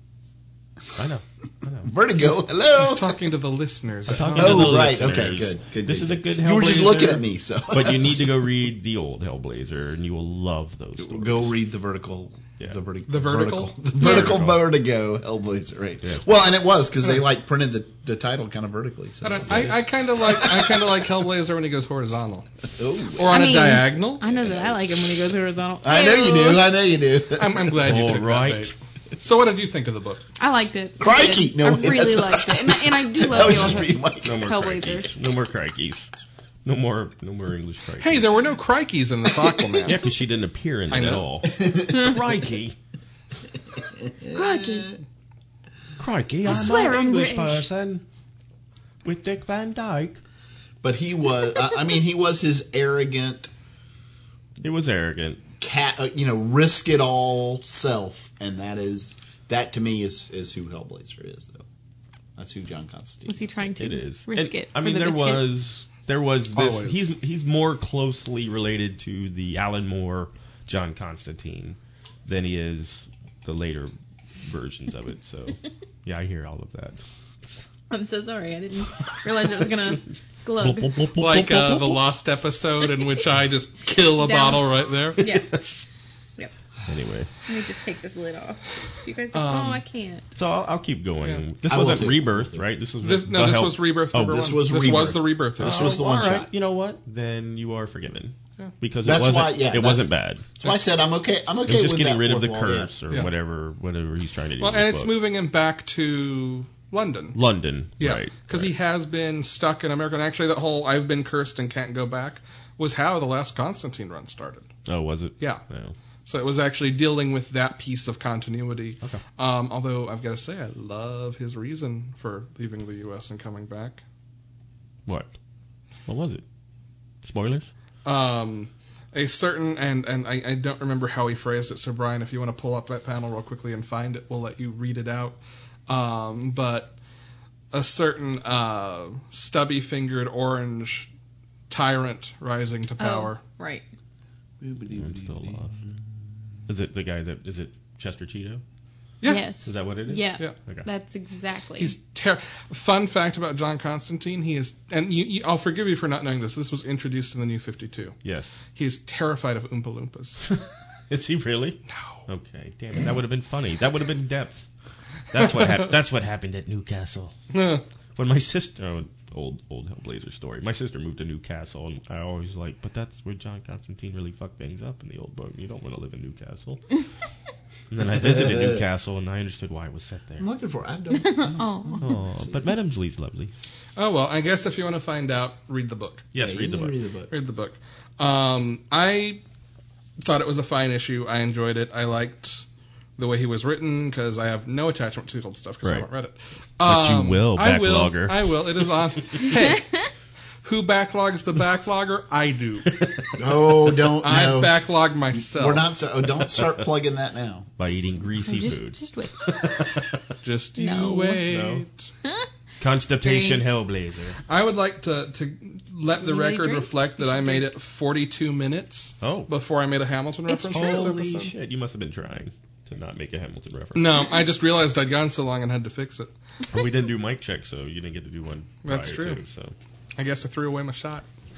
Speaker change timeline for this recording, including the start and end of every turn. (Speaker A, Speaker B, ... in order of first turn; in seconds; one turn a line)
Speaker A: 0.9-1.9
Speaker B: 1.8-3.1
Speaker C: 2.7-4.9
Speaker A: 4.1-11.5
Speaker B: 4.3-8.4
Speaker B: 11.0-20.9
Speaker C: 13.1-14.0
Speaker A: 13.9-14.6
Speaker D: 14.0-14.4
Speaker C: 19.2-22.5
Speaker B: 22.7-24.9
Speaker C: 23.1-24.2
Speaker D: 23.3-26.7
Speaker B: 25.8-28.0
Speaker C: 27.3-30.2
Speaker A: 27.8-28.7
Speaker D: 30.4-35.1
Speaker B: 31.0-34.5
Speaker A: 33.3-36.1
Speaker A: 36.6-38.5
Speaker C: 38.0-40.0
Speaker A: 39.8-42.8
Speaker C: 40.9-41.2
Speaker B: 41.5-42.2
Speaker B: 43.8-45.0
Speaker D: 44.3-44.9
Speaker A: 46.0-48.0
Speaker D: 46.4-47.7
Speaker B: 46.5-46.8
Speaker A: 49.0-50.2
Speaker B: 50.8-53.5
Speaker A: 54.6-55.4
Speaker B: 55.6-61.6
Speaker B: 62.4-63.7
Speaker D: 63.3-65.5
Speaker A: 63.8-73.9
Speaker C: 66.5-67.1
Speaker A: 74.4-77.6
Speaker D: 77.9-81.0
Speaker A: 80.6-82.0
Speaker C: 81.2-85.2
Speaker D: 84.2-85.6
Speaker A: 85.2-85.9
Speaker A: 86.9-87.3
Speaker D: 87.5-90.2
Speaker C: 89.3-89.8
Speaker A: 90.3-100.7
Speaker B: 91.6-92.7
Speaker C: 93.0-96.0
Speaker B: 94.2-96.5
Speaker B: 99.0-102.9
Speaker A: 101.7-105.1
Speaker C: 104.6-107.4
Speaker A: 107.3-108.7
Speaker C: 108.0-114.7
Speaker A: 114.9-115.9
Speaker C: 116.2-124.0
Speaker A: 125.0-125.3
Speaker A: 126.0-126.4
Speaker A: 127.2-127.7
Speaker C: 128.0-136.9
Speaker C: 137.7-141.1
Speaker C: 141.7-143.4
Speaker D: 143.0-143.8
Speaker B: 144.6-145.9
Speaker A: 144.9-145.7
Speaker A: 146.7-148.6
Speaker D: 149.2-151.9
Speaker A: 149.6-150.8
Speaker C: 151.8-158.2
Speaker A: 158.2-158.6
Speaker C: 158.7-160.4
Speaker A: 161.1-164.7
Speaker C: 161.9-162.2
Speaker A: 165.3-167.3
Speaker C: 167.5-167.8
Speaker A: 168.2-176.9
Speaker A: 177.9-180.4
Speaker B: 178.0-178.8
Speaker B: 180.4-182.7
Speaker D: 181.1-182.1
Speaker A: 182.0-183.5
Speaker C: 183.9-186.3
Speaker A: 186.3-186.9
Speaker B: 186.4-187.3
Speaker C: 187.3-189.4
Speaker C: 190.2-192.6
Speaker C: 193.2-200.1
Speaker A: 196.8-198.7
Speaker C: 200.6-203.0
Speaker A: 202.9-203.4
Speaker B: 203.3-204.8
Speaker C: 204.2-205.8
Speaker B: 205.3-208.3
Speaker A: 207.8-210.3
Speaker D: 208.4-209.9
Speaker C: 210.4-212.1
Speaker D: 210.8-211.4
Speaker A: 210.9-211.8
Speaker A: 212.8-214.4
Speaker D: 213.2-213.6
Speaker C: 214.5-221.5
Speaker D: 216.2-217.7
Speaker A: 219.2-219.5
Speaker D: 220.5-221.1
Speaker A: 220.7-224.3
Speaker C: 223.9-226.3
Speaker A: 226.7-229.7
Speaker C: 228.8-229.4
Speaker C: 230.2-231.2